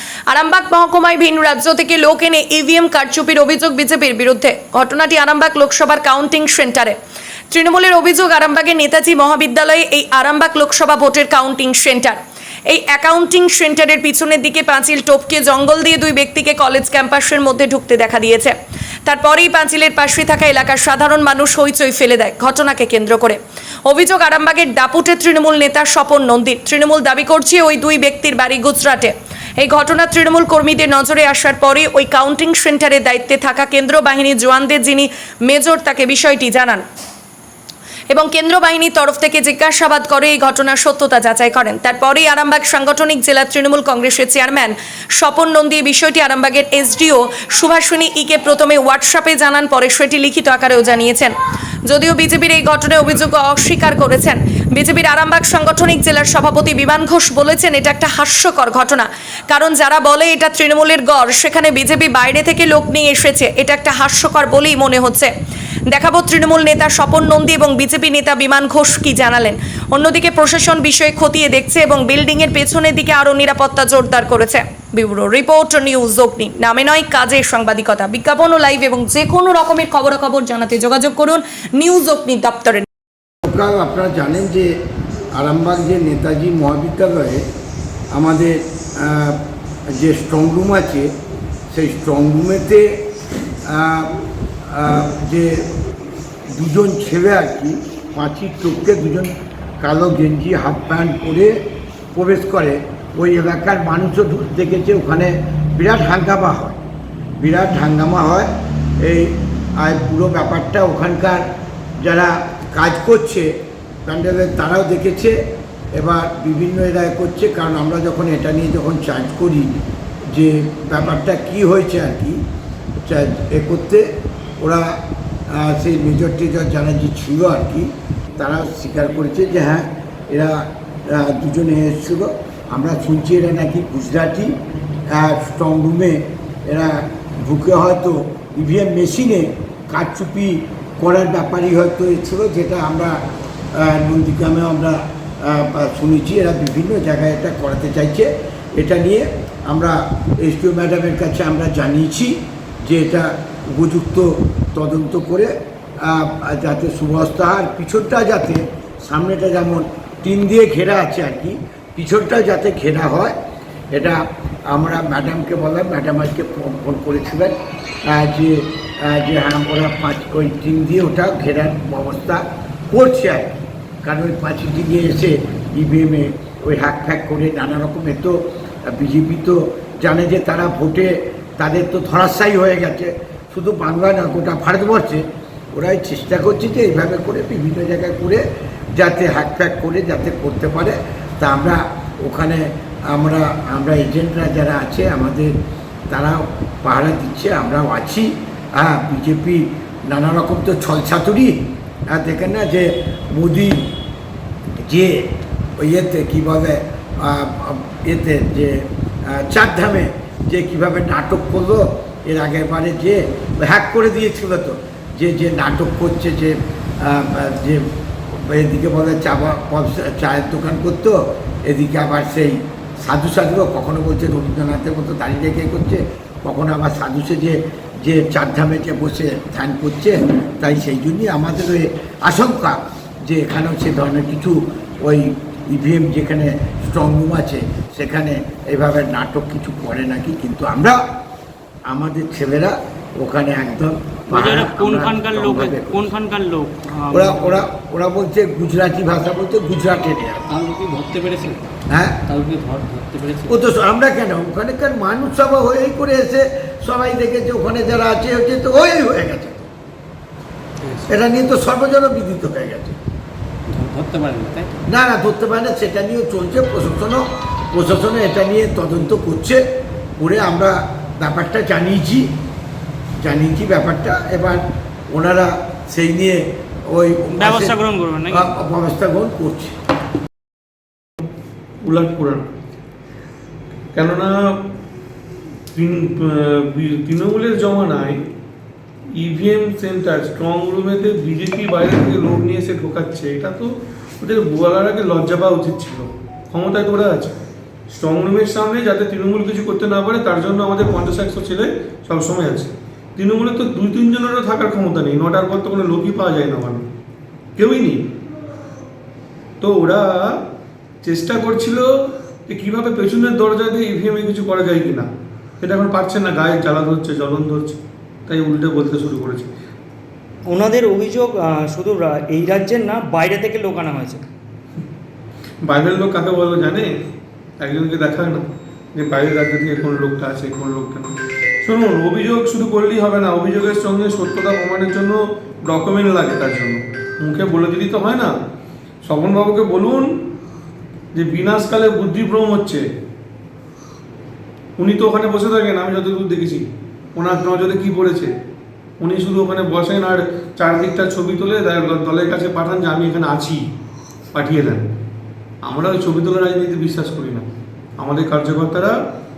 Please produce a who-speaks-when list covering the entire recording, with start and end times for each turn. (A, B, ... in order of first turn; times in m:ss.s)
0:00.3-0:07.0 A
0:07.5-0:18.5 A
0:19.0-0:36.8 A
0:38.1-0:51.3 A
0:51.9-1:05.3 A
1:05.9-1:22.9 A
1:23.4-1:24.7 B
1:25.3-1:27.4 B
1:28.1-1:31.1 B
1:31.7-1:33.0 B
1:33.6-1:35.7 B
1:36.5-1:41.5 B
1:42.1-1:46.8 B
1:47.4-1:48.5 B
1:49.0-1:51.4 B
1:52.0-1:55.4 B
1:56.0-1:59.7 B
2:00.3-2:02.4 B
2:03.0-2:04.0 B
2:04.6-2:14.6 B
2:15.1-2:23.2 B
2:23.7-2:43.3 B
2:43.9-2:47.5 B
2:48.0-2:53.5 B
2:54.0-3:08.4 B
3:09.0-3:15.5 B
3:16.1-3:23.9 B
3:24.8-4:01.0 B
4:01.9-4:06.1 B
4:04.3-4:07.6 C
4:07.1-4:10.4 B
4:10.5-4:11.7 C
4:11.9-4:12.2 B
4:12.3-4:13.5 C
4:13.5-4:19.7 B
4:20.8-4:21.1 C
4:21.1-4:23.0 B
4:23.7-4:24.7 C
4:24.9-4:29.6 B
4:30.2-4:32.3 B
4:33.2-4:39.7 B
4:37.4-4:38.5 C
4:41.8-4:42.4 D
4:43.9-4:44.6 D
4:45.7-4:48.2 D
4:49.1-5:06.9 D
5:07.6-5:08.0 D
5:09.6-5:10.4 D
5:11.0-5:15.1 D
5:15.6-5:19.5 D
5:20.4-5:24.2 E
5:25.6-5:26.9 D
5:27.6-5:38.3 D
5:39.0-5:40.2 D
5:41.1-5:42.8 D
5:44.8-5:48.3 D
5:49.0-5:53.7 D
5:54.3-5:54.9 D
5:55.6-5:59.0 D